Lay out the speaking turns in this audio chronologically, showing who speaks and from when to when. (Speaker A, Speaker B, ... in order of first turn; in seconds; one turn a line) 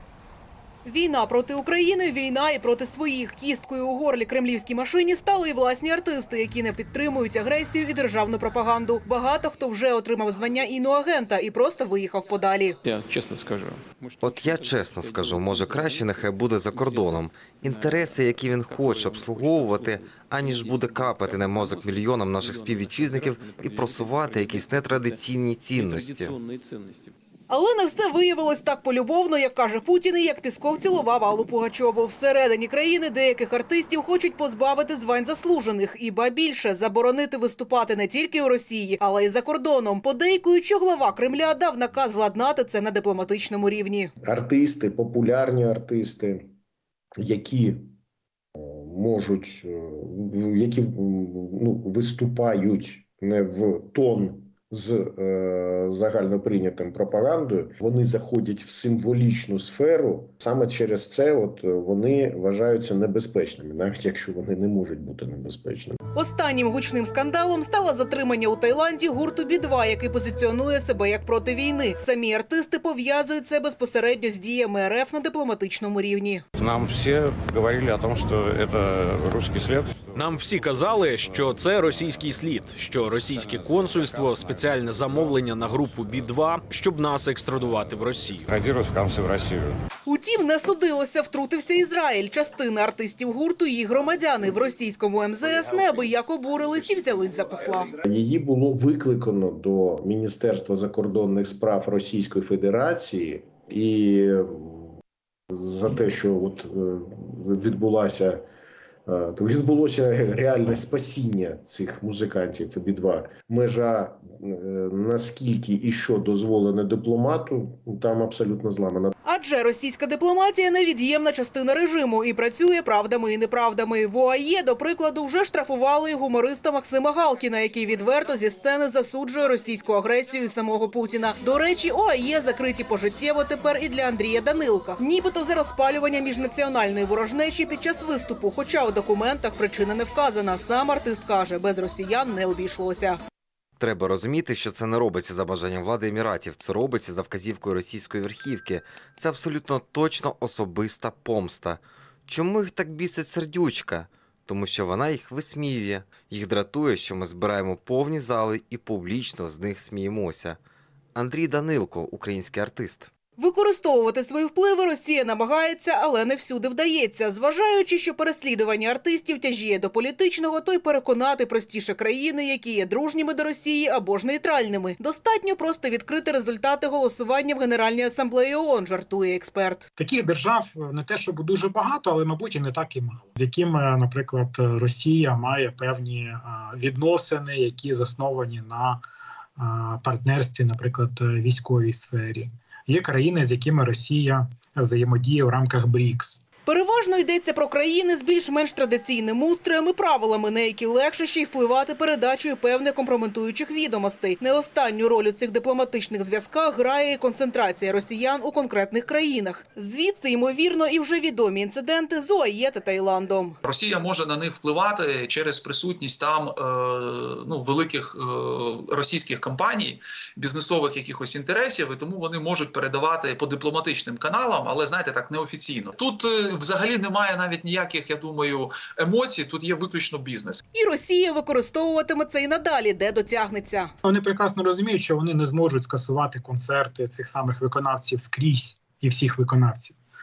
Speaker A: 0.8-12.8
Speaker B: 12.8-17.2
Speaker C: 14.2-26.4
Speaker B: 17.8-25.2
Speaker B: 25.8-27.1
Speaker A: 27.5-44.1
Speaker D: 44.2-46.5
Speaker D: 47.2-47.9
Speaker D: 48.6-66.0
Speaker A: 66.2-76.4
Speaker E: 76.6-82.3
Speaker F: 80.2-88.5
Speaker E: 83.2-86.2
Speaker E: 88.4-89.8
Speaker A: 90.1-97.9
Speaker D: 98.0-104.9
Speaker D: 105.5-108.4
Speaker D: 109.1-119.1
Speaker A: 119.2-143.2
Speaker C: 143.8-160.6
Speaker C: 161.2-163.1
Speaker A: 163.4-179.8
Speaker G: 180.0-189.0
Speaker G: 189.6-196.4
Speaker A: 196.7-213.6
Speaker H: 213.6-230.6
Speaker A: 230.7-233.9
Speaker G: 234.0-240.0